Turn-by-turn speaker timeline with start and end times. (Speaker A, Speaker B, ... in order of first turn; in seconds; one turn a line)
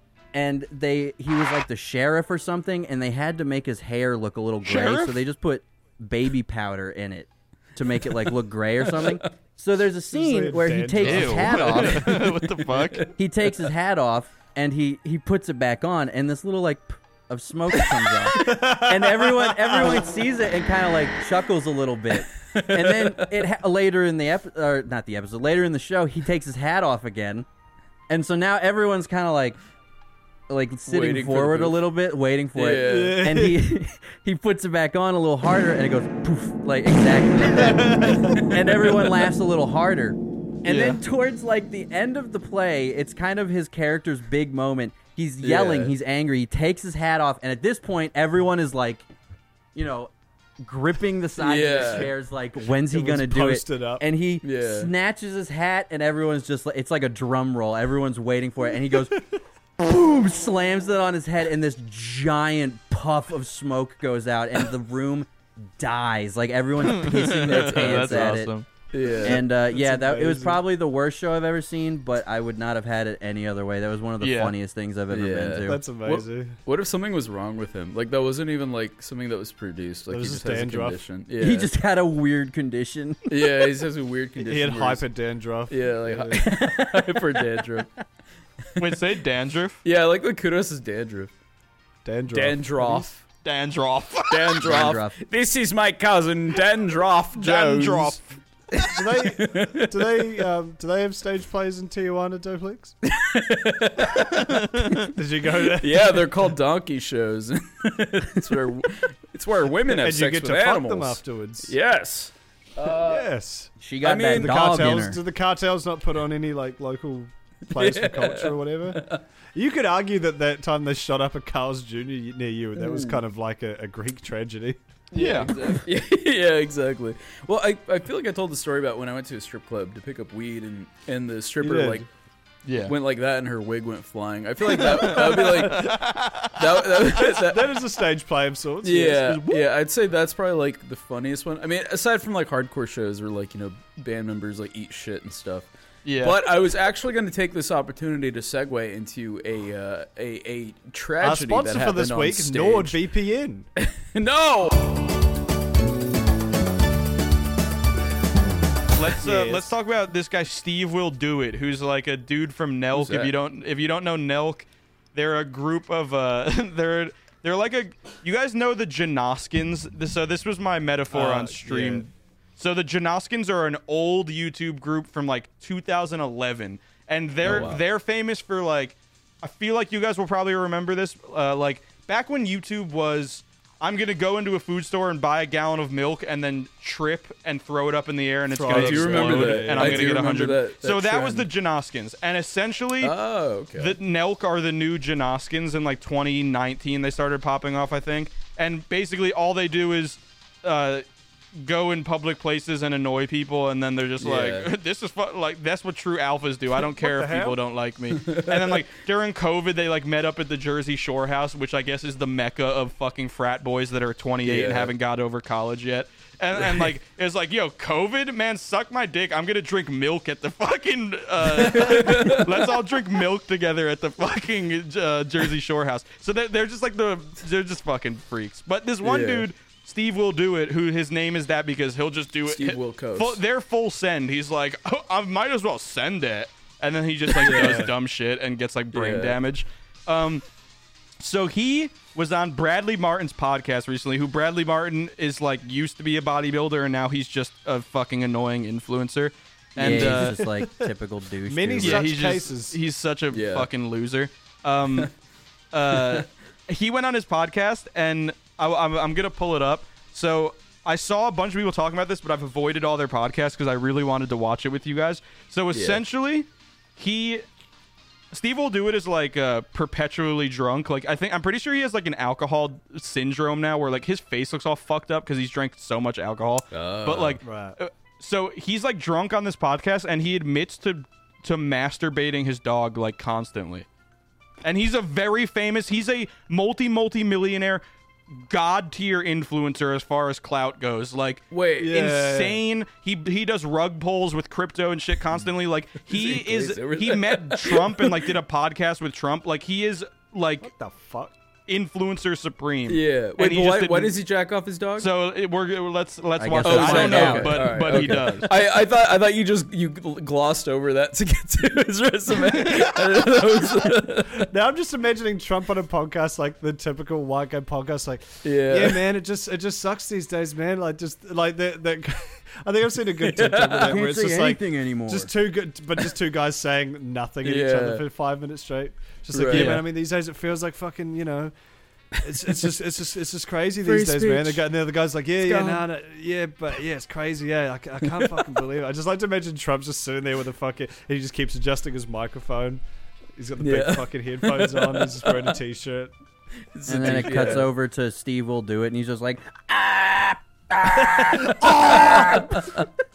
Speaker A: 0.3-12.1
Speaker B: 4.6-5.2
Speaker C: 8.1-9.3
Speaker D: 10.1-11.8
Speaker B: 11.0-13.1
Speaker C: 11.5-13.1
Speaker A: 13.2-27.5
Speaker D: 18.3-19.9
Speaker C: 22.5-23.4
Speaker A: 28.1-29.6
Speaker A: 30.5-49.1
Speaker C: 30.9-31.8
Speaker C: 32.5-33.3
Speaker D: 32.8-33.6
Speaker D: 37.5-38.5
Speaker B: 40.6-41.0
Speaker C: 45.4-45.9
Speaker A: 49.7-59.3
Speaker C: 51.4-52.1
Speaker D: 52.7-54.0
Speaker C: 54.4-54.9
Speaker A: 59.8-68.5
Speaker B: 66.8-68.7
Speaker C: 67.3-69.4
Speaker D: 69.2-70.6
Speaker A: 69.2-75.8
Speaker B: 74.2-74.5
Speaker C: 75.1-81.7
Speaker D: 75.7-76.6
Speaker D: 80.1-81.0
Speaker A: 81.4-83.2
Speaker C: 83.3-85.0
Speaker D: 84.4-86.5
Speaker C: 85.7-87.9
Speaker A: 86.6-87.1
Speaker B: 88.8-89.8
Speaker C: 89.8-91.3
Speaker D: 92.0-93.1
Speaker C: 92.3-93.2
Speaker B: 93.4-94.6
Speaker C: 94.3-98.2
Speaker A: 94.6-95.2
Speaker B: 97.3-98.2
Speaker C: 98.8-100.5
Speaker D: 98.8-102.9
Speaker C: 103.0-104.7
Speaker B: 104.3-105.1
Speaker D: 105.1-106.3
Speaker C: 105.7-113.3
Speaker D: 109.9-111.7
Speaker D: 112.8-113.7
Speaker A: 113.8-115.2
Speaker C: 114.0-115.0
Speaker D: 114.3-124.8
Speaker C: 117.7-119.2
Speaker C: 122.8-123.2
Speaker C: 125.1-132.1
Speaker B: 125.1-125.5
Speaker D: 131.6-132.1
Speaker B: 132.6-132.9
Speaker C: 132.8-137.8
Speaker B: 134.7-136.7
Speaker D: 137.1-139.7
Speaker C: 138.8-153.0
Speaker B: 146.0-146.4
Speaker D: 151.2-153.7
Speaker C: 153.8-155.1
Speaker B: 158.9-193.1
Speaker D: 159.2-159.7
Speaker C: 162.9-163.3
Speaker D: 171.1-172.1
Speaker C: 177.4-177.8
Speaker D: 188.5-190.4
Speaker C: 188.6-191.5
Speaker C: 193.0-194.0
Speaker B: 193.7-201.0
Speaker B: 201.6-240.4
Speaker C: 204.2-204.7
Speaker D: 206.7-207.6
Speaker C: 208.1-208.8
Speaker C: 214.4-214.9
Speaker C: 216.6-216.9
Speaker C: 221.4-222.7
Speaker C: 229.0-229.5
Speaker C: 232.4-233.4
Speaker C: 237.3-237.9
Speaker D: 237.4-237.9
Speaker C: 238.9-239.4
Speaker B: 241.2-250.4
Speaker A: 249.8-252.0
Speaker D: 249.8-250.9
Speaker D: 251.4-252.8
Speaker B: 251.8-255.1
Speaker C: 253.3-253.7
Speaker B: 255.7-267.4
Speaker C: 255.9-256.2
Speaker C: 265.7-266.0
Speaker B: 268.3-283.9
Speaker C: 276.7-277.4
Speaker D: 277.4-277.8
Speaker B: 284.6-287.8
Speaker B: 288.4-300.7
Speaker C: 291.5-292.0
Speaker D: 291.8-292.6
Speaker C: 296.1-298.3
Speaker D: 300.6-301.3
Speaker B: 301.7-304.2
Speaker C: 302.9-305.1
Speaker B: 305.0-308.5
Speaker A: 306.4-307.6
Speaker C: 306.6-314.5
Speaker B: 312.6-312.9
Speaker D: 314.3-331.5
Speaker C: 318.4-319.1
Speaker C: 323.2-324.0
Speaker A: 323.8-325.3
Speaker C: 327.4-328.0
Speaker C: 329.3-329.8
Speaker B: 329.5-329.8
Speaker D: 332.2-342.8
Speaker C: 333.8-334.6
Speaker C: 335.4-335.8
Speaker D: 343.4-346.1
Speaker C: 343.6-345.6
Speaker C: 346.7-347.7
Speaker A: 346.9-352.4
Speaker D: 351.4-352.4
Speaker C: 351.6-352.8